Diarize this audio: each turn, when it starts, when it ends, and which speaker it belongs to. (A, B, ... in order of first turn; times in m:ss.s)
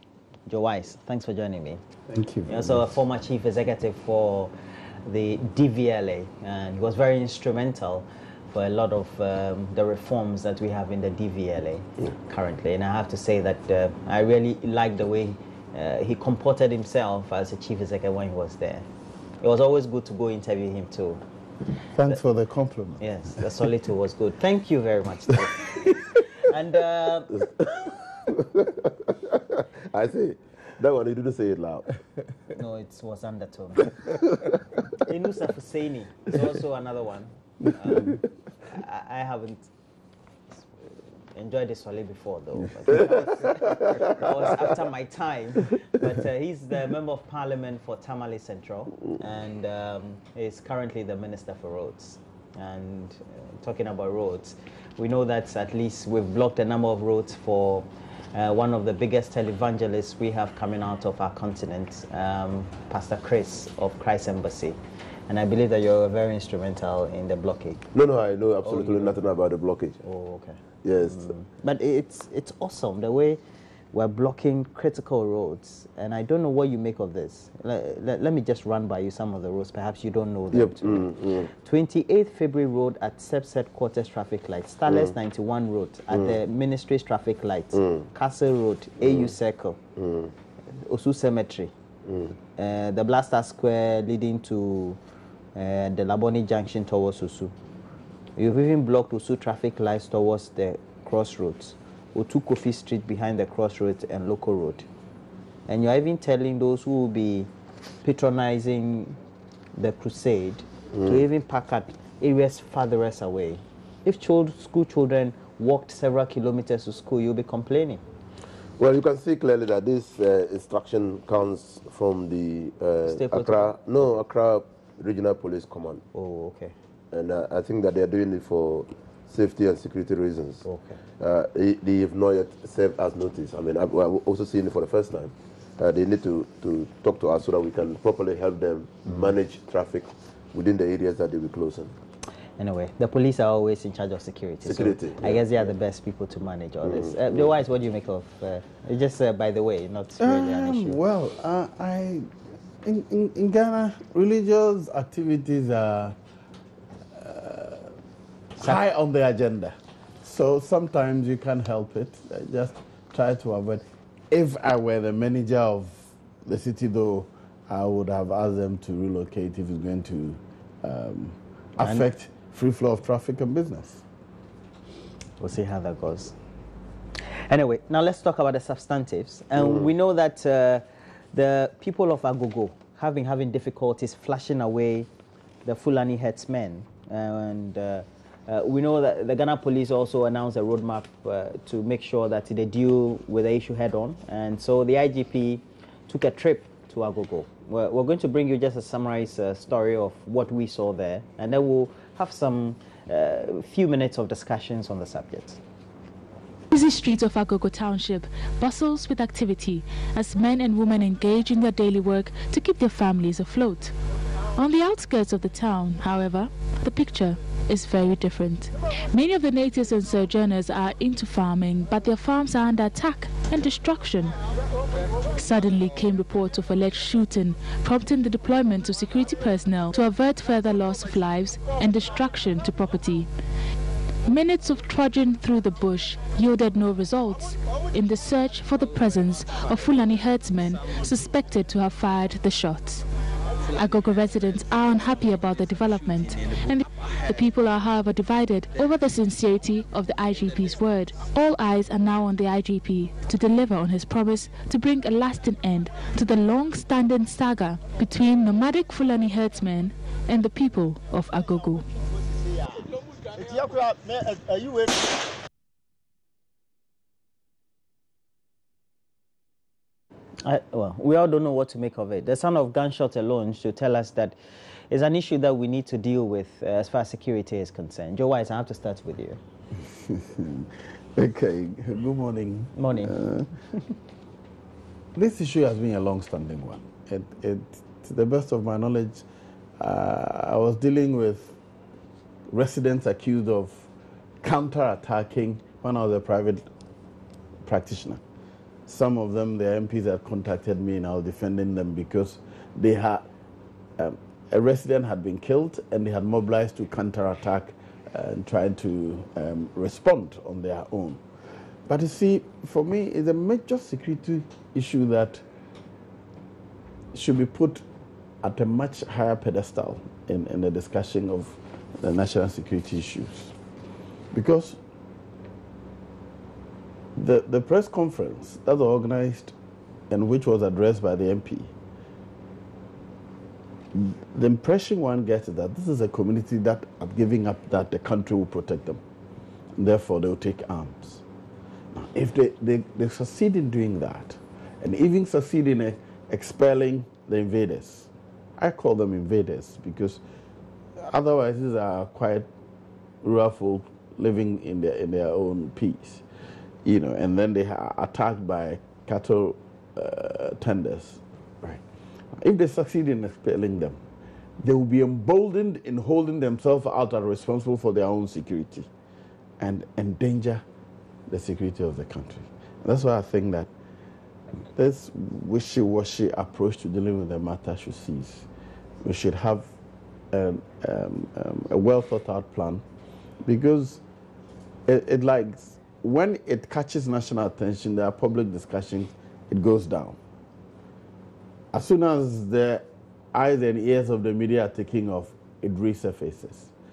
0:00.5-0:01.8 A
0:02.1-0:03.0 B
0:02.5-0:04.5 A
0:05.0-0:18.8 A
0:19.4-0:21.2 A
0:21.9-0:23.6 B
0:23.0-0:27.4 A
0:27.4-0:31.9 C
0:32.5-0:34.0 A
0:35.0-0:39.7 A
0:40.6-1:07.8 A
0:43.6-0:44.2 C
1:07.9-1:09.9 C
1:08.6-1:09.2 A
1:09.9-1:13.4 A
1:10.8-1:11.3 C
1:13.9-1:29.8 A
1:20.5-1:21.5 C
1:24.9-1:25.1 C
1:26.1-1:26.4 C
1:27.7-1:28.0 C
1:29.0-1:29.3 C
1:30.0-1:30.3 C
1:30.7-1:31.7 A
1:32.0-1:32.3 C
1:32.6-1:35.0 A
1:35.5-1:37.5 A
1:38.4-1:44.8 A
1:45.7-1:47.5 A
1:48.0-1:49.2 A
1:49.8-1:58.0 A
1:50.9-1:51.2 C
1:58.8-2:06.0 C
2:03.0-2:03.9 A
2:06.1-2:06.7 A
2:07.1-2:10.6 C
2:10.6-2:11.0 A
2:11.2-2:21.9 C
2:22.6-2:31.0 A
2:24.6-2:25.7 C
2:26.8-2:27.5 C
2:30.2-2:32.3 B
2:32.8-2:36.2 B
2:37.1-2:37.9 B
2:38.5-2:54.0 B
2:51.8-2:52.1 A
2:55.4-2:56.4 A
2:57.5-3:05.1 A
2:59.6-2:59.9 C
3:05.6-3:25.6 A
3:26.7-3:33.9 D
3:34.6-3:44.3 D
3:45.3-3:53.3 D
3:54.2-4:03.0 D
4:03.7-4:21.8 D
4:23.4-4:24.8 A
4:30.4-4:34.4 A
4:34.9-4:39.4 A
4:39.9-4:43.5 B
4:42.8-4:43.2 A
4:45.1-4:49.2 B
4:49.8-4:51.6 B
4:52.5-4:53.9 B
4:54.4-4:56.6 B
4:57.6-4:58.2 B
4:58.9-5:03.2 B
5:04.0-5:11.2 B
5:11.8-5:15.4 B
5:17.1-5:17.8 B
5:18.4-5:23.5 B
5:24.3-5:24.8 B
5:27.2-5:29.5 B
5:30.1-5:31.7 B
5:33.9-5:39.0 B
5:39.8-5:41.2 B
5:41.9-5:50.2 B
5:51.0-5:52.5 B
5:53.2-5:56.2 B
5:56.8-6:01.8 B
6:02.4-6:04.0 B
6:04.6-6:08.9 B
6:09.6-6:10.6 B
6:11.3-6:13.7 B
6:14.7-6:18.5 B
6:19.0-6:19.7 B
6:20.3-6:22.8 B
6:23.4-6:24.0 B
6:24.9-6:30.2 B
6:31.7-6:36.7 B